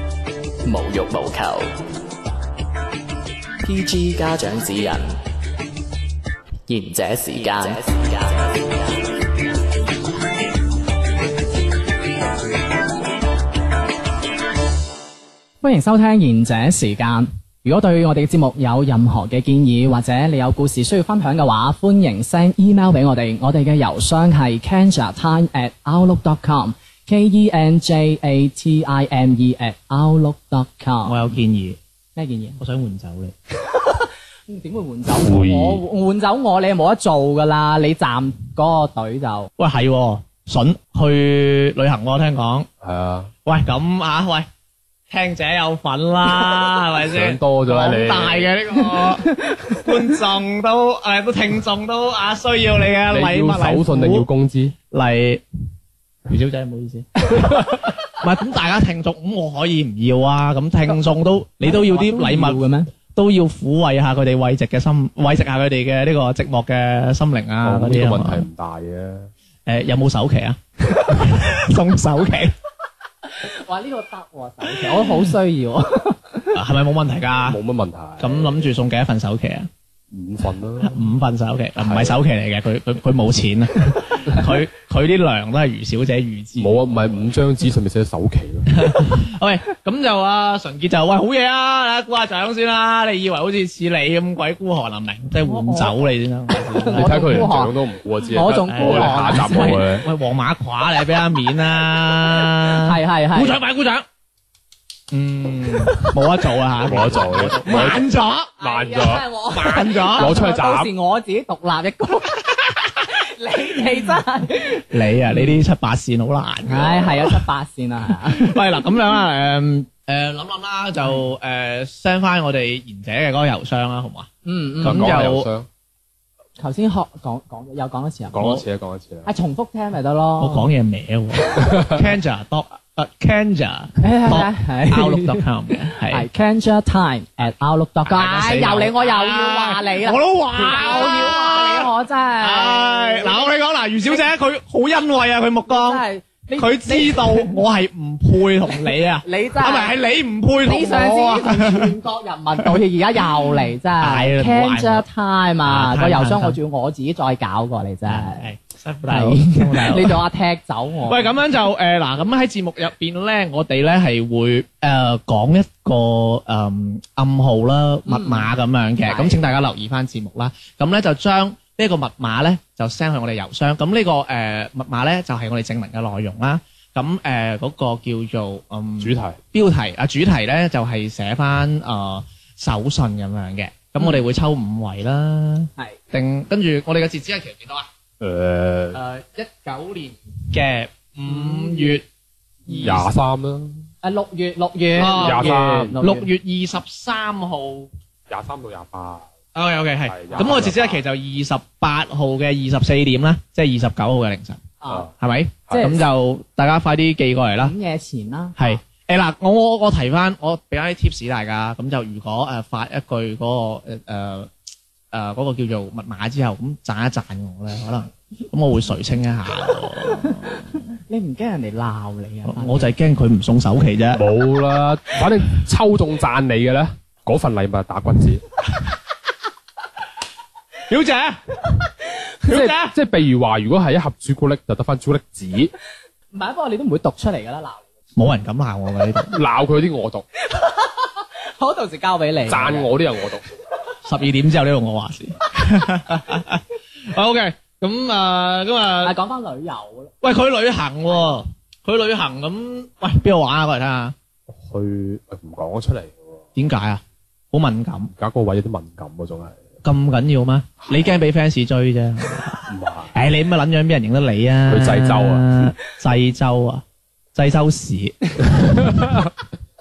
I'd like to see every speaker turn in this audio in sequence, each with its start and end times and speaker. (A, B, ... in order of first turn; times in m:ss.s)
0:00.6-0:01.8 A
0:03.6-0:05.2 A
0:06.7-0:08.9 A
0:15.6-0:31.2 B
0:31.0-0:31.8 C
0:32.2-0:32.6 B
0:32.6-0:33.3 C
0:33.6-0:39.5 B
0:35.2-0:35.8 D
0:39.6-0:42.7 C
0:42.8-0:43.3 D
0:43.4-0:44.5 C
0:45.1-0:54.3 C
0:47.0-0:48.5 D
0:49.3-0:49.8 B
0:53.1-0:54.7 D
0:54.9-0:55.4 C
0:56.3-0:57.5 C
0:57.3-0:57.6 B
0:58.1-1:08.4 C
1:01.6-1:02.9 B
1:07.6-1:09.3 D
1:09.6-1:12.5 C
1:13.4-1:16.6 B
1:16.5-1:17.6 C
1:17.4-1:18.6 D
1:18.2-1:19.7 C
1:20.1-1:21.0 D
1:20.8-1:27.3 C
1:21.8-1:22.2 D
1:26.6-1:28.9 D
1:28.7-1:37.5 C
1:35.4-1:36.0 B
1:36.7-1:37.7 B
1:37.0-1:40.0 D
1:38.3-1:39.8 B
1:38.5-1:44.0 C
1:42.5-1:43.6 B
1:45.1-1:48.5 C
1:46.8-1:48.0 D
1:47.7-1:48.0 B
1:48.6-1:49.2 D
1:48.6-1:55.6 B
1:49.5-1:50.3 C
1:50.2-1:50.9 D
1:54.9-1:57.4 C
1:56.6-1:58.8 B
1:58.2-2:04.3 C
2:04.4-2:05.1 B
2:04.8-2:05.7 D
2:04.8-2:05.5 C
2:06.6-2:08.4 B
2:08.3-2:09.3 D
2:09.2-2:10.6 B
2:10.4-2:16.3 C
2:11.6-2:12.0 D
2:14.0-2:15.4 B
2:16.1-2:23.5 B
2:18.0-2:26.0 C
2:25.7-2:27.5 B
2:26.6-2:31.9 C
2:29.2-2:30.0 B
2:30.6-2:38.5 B
2:33.5-2:35.0 C
2:35.6-2:36.6 C
2:38.1-2:40.2 C
2:39.1-2:41.4 B
2:41.1-3:07.9 C
2:48.1-2:48.5 B
2:49.0-2:49.5 B
2:59.0-2:59.4 D
3:08.2-3:09.0 D
3:08.9-3:12.0 C
3:11.2-3:12.0 B
3:12.7-3:13.1 B
3:12.7-3:13.0 C
3:12.8-3:13.8 D
3:14.0-3:16.3 B
3:15.0-3:17.9 C
3:15.0-3:15.9 D
3:18.3-3:19.3 D
3:19.5-3:24.6 C
3:20.0-3:21.0 D
3:24.8-3:25.1 B
3:25.1-3:27.7 C
3:25.7-3:26.0 B
3:27.6-3:28.7 B
3:28.6-3:34.5 C
3:35.1-3:40.8 C
3:40.1-3:42.9 B
3:42.5-3:44.2 C
3:44.1-3:48.4 D
3:50.9-3:51.9 C
3:52.5-3:52.9 C
3:52.5-3:55.7 D
3:56.3-3:57.8 B
3:58.2-3:59.4 C
3:59.3-4:00.2 D
4:00.5-4:02.9 B
4:02.5-4:03.4 D
4:04.0-4:09.1 C
4:09.0-4:10.1 B
4:10.2-4:14.1 C
4:14.5-4:16.4 D
4:16.6-4:18.1 C
4:18.2-4:19.6 D
4:19.8-4:26.8 C
4:22.7-4:23.1 D
4:24.7-4:25.7 D
4:27.3-4:29.0 C
4:29.0-4:29.2 D